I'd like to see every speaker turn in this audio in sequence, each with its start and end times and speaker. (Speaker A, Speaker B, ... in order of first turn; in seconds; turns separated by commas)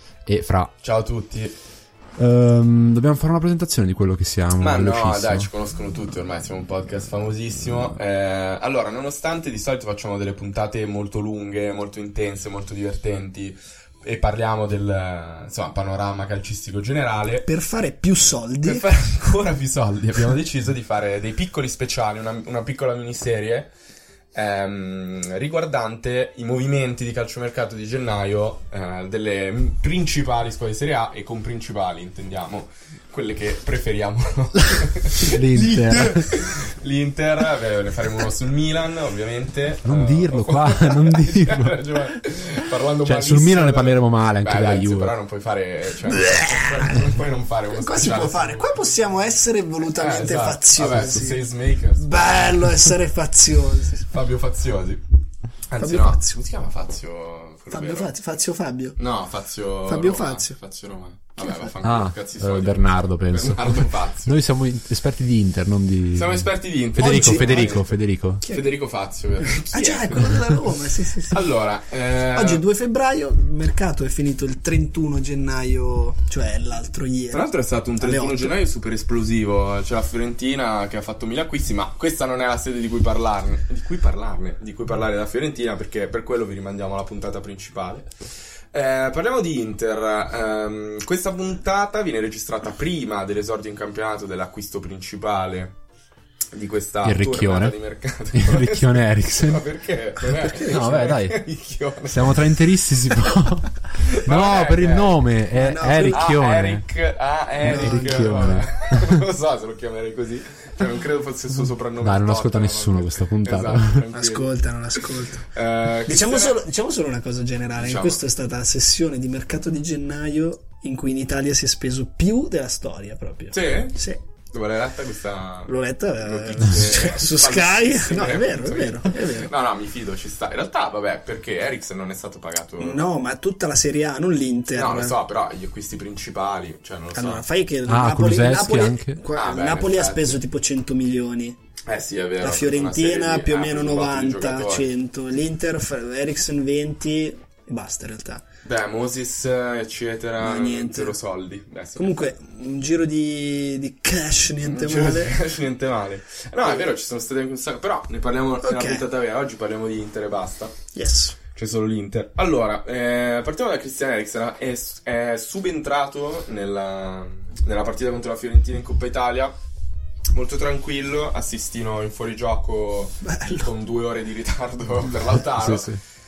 Speaker A: 0.2-0.7, Speaker B: 0.8-1.6, Speaker A: 2.2-5.5, Speaker B: 4.6-17.5, Speaker C: 17.4-18.8, Speaker B: 18.6-23.7, Speaker B: 24.3-48.7, Speaker A: 35.1-36.4, Speaker A: 39.8-41.8, Speaker A: 43.0-45.1, Speaker C: 46.1-47.0, Speaker C: 47.7-51.4, Speaker B: 49.9-52.3, Speaker C: 52.0-54.1, Speaker B: 54.1-55.0, Speaker B: 55.7-58.1, Speaker C: 55.8-56.4, Speaker C: 57.7-59.0, Speaker B: 59.0-64.3, Speaker C: 59.9-60.5, Speaker C: 61.4-61.7, Speaker A: 61.8-68.4, Speaker B: 66.1-70.5, Speaker C: 67.0-67.8, Speaker C: 69.4-71.5, Speaker B: 71.3-72.6, Speaker C: 72.3-77.5, Speaker B: 77.3-88.1, Speaker C: 78.0-78.5, Speaker B: 88.7-95.8, Speaker B: 96.5-102.5, Speaker A: 97.0-97.7, Speaker A: 98.3-99.6, Speaker C: 100.3-100.8, Speaker A: 100.6-101.4, Speaker A: 102.1-106.8, Speaker B: 104.0-105.2, Speaker C: 105.5-106.3, Speaker B: 106.0-116.5, Speaker A: 107.6-109.2, Speaker C: 107.6-108.6, Speaker A: 112.0-114.1, Speaker C: 114.1-115.5, Speaker C: 116.0-124.2, Speaker B: 117.8-118.2, Speaker B: 123.5-124.0, Speaker B: 124.5-133.0, Speaker C: 125.7-129.5, Speaker C: 132.8-135.2, Speaker B: 134.7-137.4, Speaker C: 137.1-141.6, Speaker A: 137.9-139.2, Speaker B: 139.3-140.3, Speaker B: 141.8-144.9, Speaker C: 142.4-148.4, Speaker B: 148.6-152.3, Speaker C: 150.4-151.2, Speaker C: 152.0-155.4, Speaker B: 154.6-160.8, Speaker C: 158.6-159.0, Speaker C: 160.9-161.4, Speaker B: 161.5-169.5, Speaker B: 170.3-176.0, Speaker C: 173.2-173.7, Speaker A: 175.5-176.0